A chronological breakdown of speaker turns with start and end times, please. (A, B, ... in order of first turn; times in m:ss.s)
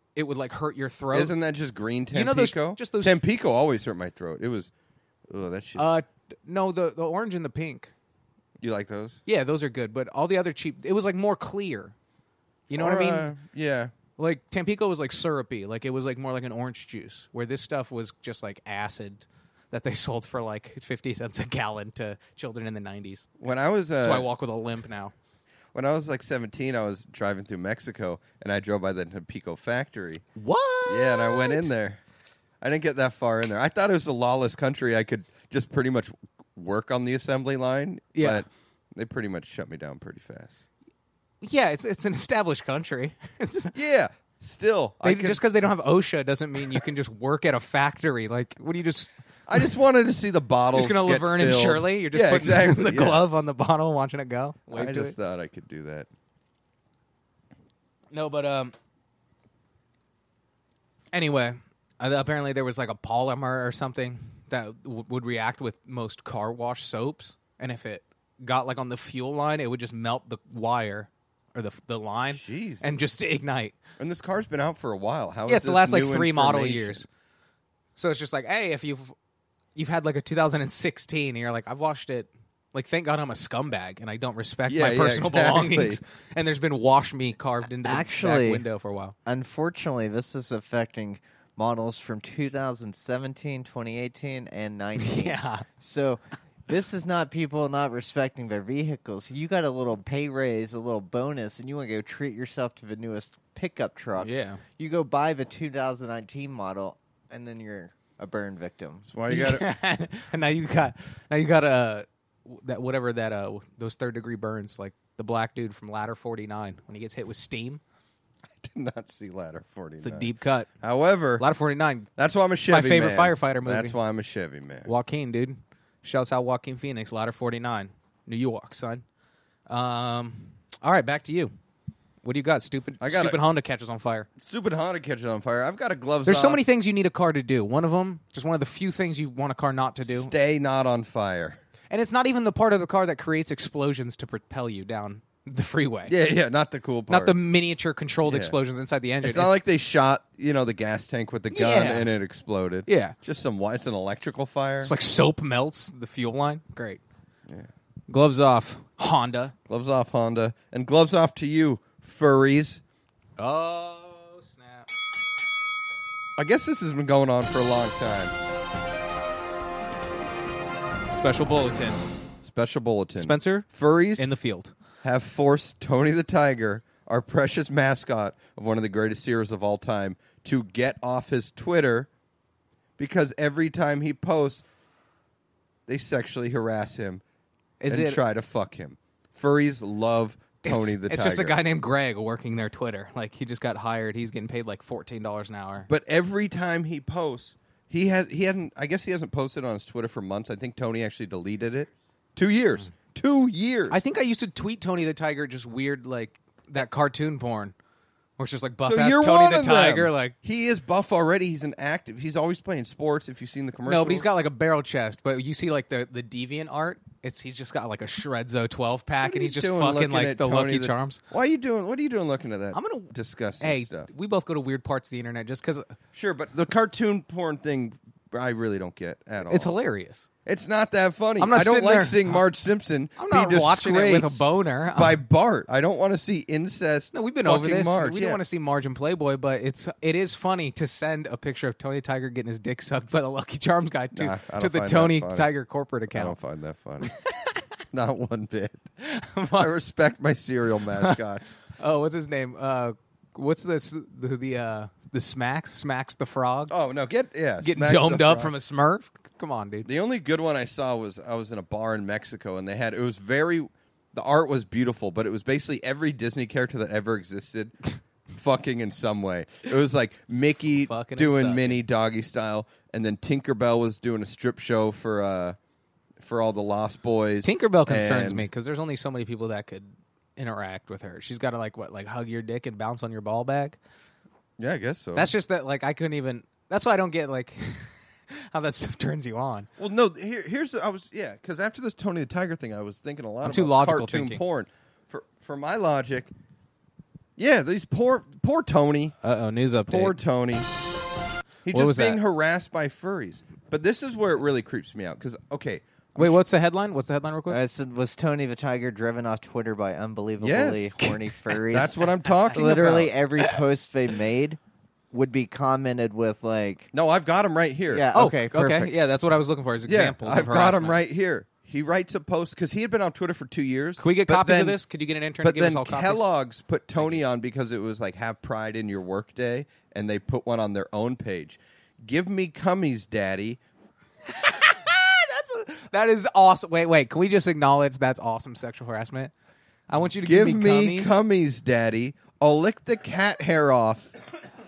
0:00.2-0:01.3 A
0:01.1-0:04.7 B
0:02.1-0:03.2 A
0:05.3-0:06.0 B
0:05.8-0:07.9 A
0:08.6-0:09.2 B
0:09.3-0:11.9 A
0:12.7-0:13.3 A
0:12.8-0:13.9 B
0:14.2-0:23.3 A
0:23.4-0:24.3 B
0:24.0-0:25.1 A
0:25.7-0:30.2 B
0:30.4-0:31.7 A
0:30.9-0:32.0 B
0:32.6-0:40.6 B
0:38.2-0:38.4 A
0:41.4-0:43.7 A
0:43.7-0:45.4 B
0:45.0-0:49.6 A
0:49.5-0:53.2 B
0:50.7-0:55.2 A
0:54.7-0:56.1 B
0:58.1-0:58.7 A
1:01.1-1:13.8 A
1:12.2-1:12.9 B
1:14.0-1:17.0 B
1:15.5-1:17.1 A
1:18.0-1:19.2 A
1:19.8-1:29.2 A
1:24.7-1:26.0 B
1:27.8-1:28.6 C
1:29.3-1:49.1 C
1:35.0-1:35.7 A
1:44.2-1:44.6 A
1:49.1-1:49.7 B
1:49.3-1:57.8 A
1:58.6-2:01.4 B
2:00.0-2:00.7 A
2:01.4-2:02.1 A
2:02.2-2:04.9 B
2:02.7-2:04.0 A
2:04.8-2:09.0 A
2:09.7-2:11.5 A
2:12.2-2:14.3 A
2:13.0-2:13.4 B
2:14.4-2:16.6 B
2:16.2-2:20.3 A
2:20.1-2:21.6 B
2:21.9-2:26.1 A
2:26.1-2:27.4 B
2:27.1-2:29.6 A
2:28.2-2:28.6 B
2:29.2-2:34.9 B
2:31.5-2:32.1 A
2:32.9-2:33.2 A
2:34.8-2:37.0 A
2:38.1-2:39.6 A
2:39.7-2:42.8 B
2:43.4-2:44.9 A
2:46.4-2:48.4 B
2:51.1-2:52.0 A
2:52.4-2:54.3 B
2:53.2-2:54.7 A
2:55.0-3:02.1 B
3:03.0-3:04.6 B
3:05.9-3:07.2 B
3:07.8-3:08.2 A
3:07.9-3:11.6 B
3:10.6-3:15.9 A
3:15.9-3:24.0 B
3:23.9-3:27.7 A
3:28.4-3:30.4 A
3:28.8-3:34.3 B
3:33.9-3:41.2 A
3:39.2-3:44.1 B
3:42.7-3:46.0 A
3:46.1-3:49.8 B
3:49.5-3:50.3 A
3:50.5-3:58.4 B
3:51.4-3:52.4 A
3:53.2-3:55.2 A
3:57.1-4:06.4 A
4:04.1-4:05.5 B
4:06.1-4:07.1 B
4:07.0-4:07.6 A
4:07.9-4:08.8 B
4:09.0-4:09.7 A
4:09.6-4:11.6 B
4:11.7-4:16.7 A
4:16.7-4:18.5 B
4:17.6-4:19.9 A
4:19.8-4:27.8 B
4:28.3-4:35.6 B
4:30.8-4:31.8 A
4:36.2-4:38.5 B
4:37.4-4:43.8 A
4:44.6-4:45.3 B
4:45.2-4:49.7 A
4:49.8-4:56.3 B
4:53.4-4:54.4 A
4:57.4-4:59.2 B
4:59.2-5:00.2 A
4:59.9-5:00.7 B
5:01.6-5:06.4 B
5:01.7-5:02.2 A
5:06.2-5:07.6 A
5:07.5-5:14.6 C
5:10.4-5:11.0 B
5:11.7-5:13.1 B
5:12.5-5:13.6 A
5:15.1-5:16.9 C
5:16.9-5:18.1 B
5:17.9-5:18.9 C
5:18.1-5:21.0 A
5:19.9-5:24.8 B
5:24.0-5:26.2 A
5:25.4-5:33.6 B
5:34.3-5:39.3 A
5:39.9-5:41.2 A
5:40.2-5:44.1 B